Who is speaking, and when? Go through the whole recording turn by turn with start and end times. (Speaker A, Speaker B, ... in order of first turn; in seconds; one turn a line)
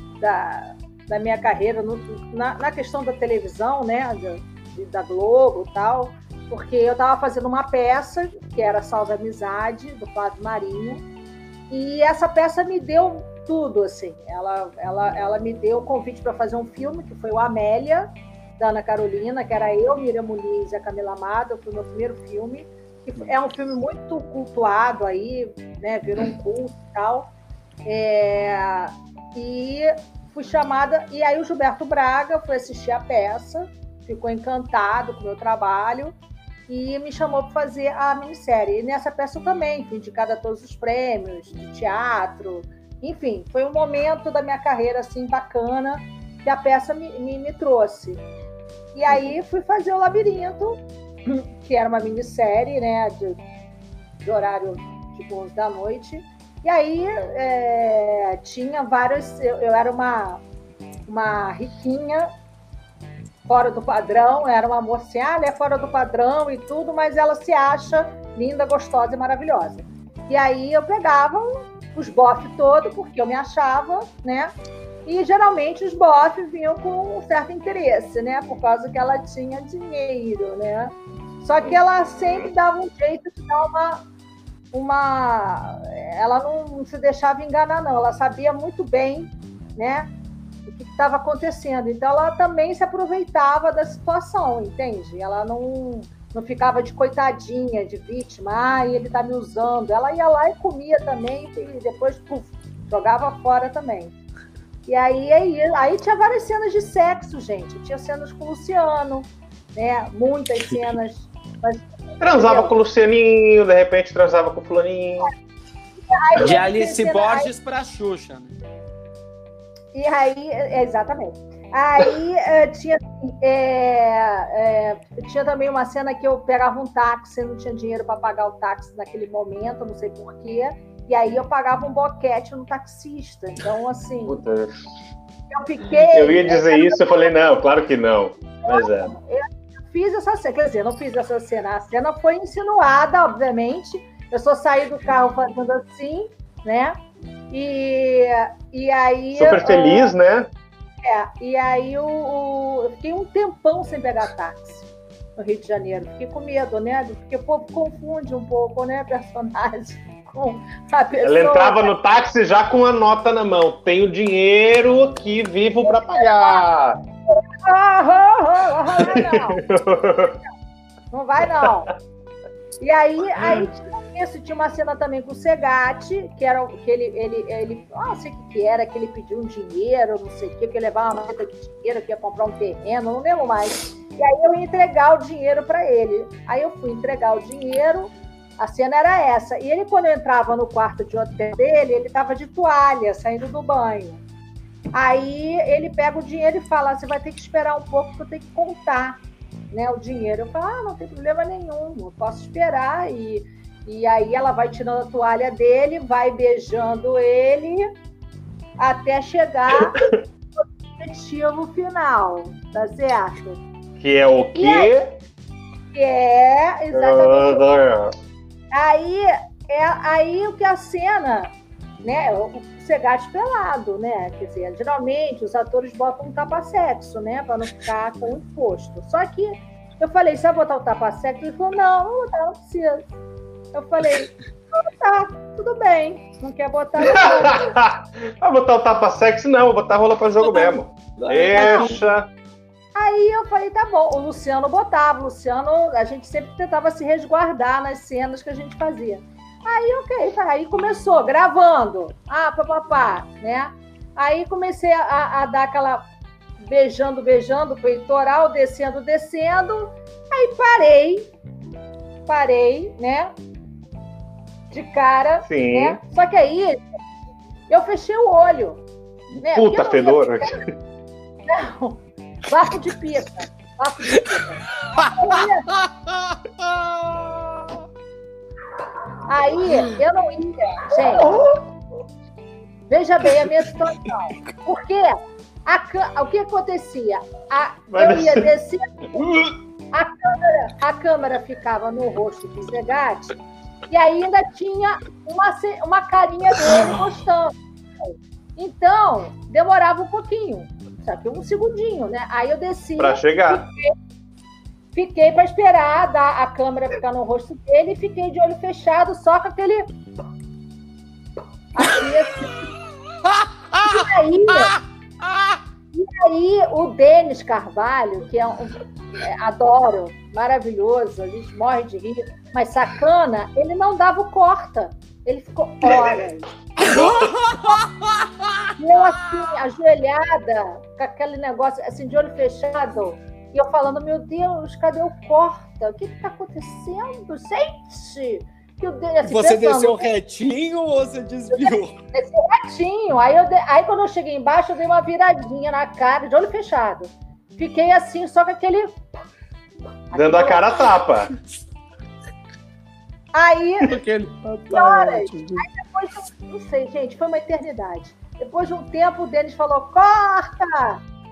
Speaker A: 0.2-11.0
Speaker A: 11.7-27.3
Speaker A: 27.9-36.2
Speaker A: 36.7-48.2
Speaker A: 48.9-53.4
Speaker A: 54.2-60.4
Speaker A: 61.1-62.3
Speaker A: 63.5-74.5
Speaker A: 75.1-84.0
Speaker B: 82.2-82.5
Speaker A: 84.7-90.1
Speaker A: 90.7-104.2
Speaker A: 104.9-112.7
Speaker B: 112.2-115.3
Speaker A: 116.1-117.5
Speaker C: 116.4-118.5
Speaker A: 119.9-134.4
Speaker B: 134.3-134.9
Speaker A: 135.5-137.3
Speaker B: 136.1-139.1
Speaker A: 138.7-147.0
Speaker A: 147.5-150.2
Speaker B: 149.3-150.5
Speaker A: 151.0-161.9
Speaker B: 161.2-167.0
Speaker A: 165.8-166.7
Speaker A: 167.3-169.7
Speaker B: 168.9-170.4
Speaker A: 171.1-171.9
Speaker A: 172.8-194.2
Speaker B: 173.4-173.7
Speaker A: 194.9-199.2
Speaker A: 199.7-207.9
Speaker A: 208.8-210.1
Speaker A: 211.0-213.6
Speaker B: 214.0-215.2
Speaker A: 214.5-214.9
Speaker A: 215.9-217.7
Speaker B: 216.9-218.1
Speaker A: 218.7-221.5
Speaker A: 222.0-233.1
Speaker A: 233.7-237.8
Speaker B: 237.0-242.3
Speaker C: 240.5-242.0
Speaker A: 241.5-241.9
Speaker A: 242.9-256.1
Speaker A: 256.6-261.3
Speaker A: 262.3-263.3
Speaker A: 264.7-266.8
Speaker B: 265.5-266.0
Speaker A: 267.7-268.8
Speaker B: 269.4-270.7
Speaker A: 269.4-270.6
Speaker A: 271.5-275.7
Speaker C: 275.0-276.1
Speaker A: 279.3-281.4
Speaker A: 282.9-289.3
Speaker B: 287.9-288.5
Speaker B: 289.2-289.5
Speaker A: 289.9-293.4
Speaker A: 293.9-303.9
Speaker B: 303.0-303.6
Speaker A: 304.9-309.9
Speaker A: 311.8-312.7
Speaker C: 313.3-314.1
Speaker A: 313.8-314.8
Speaker A: 315.9-326.5
Speaker C: 326.8-328.5
Speaker B: 326.9-327.3
Speaker A: 328.8-340.1
Speaker C: 339.2-342.0
Speaker A: 341.5-349.1
Speaker A: 350.1-350.8
Speaker B: 350.1-351.3
Speaker A: 353.3-354.0
Speaker C: 353.9-355.6
Speaker A: 354.7-361.0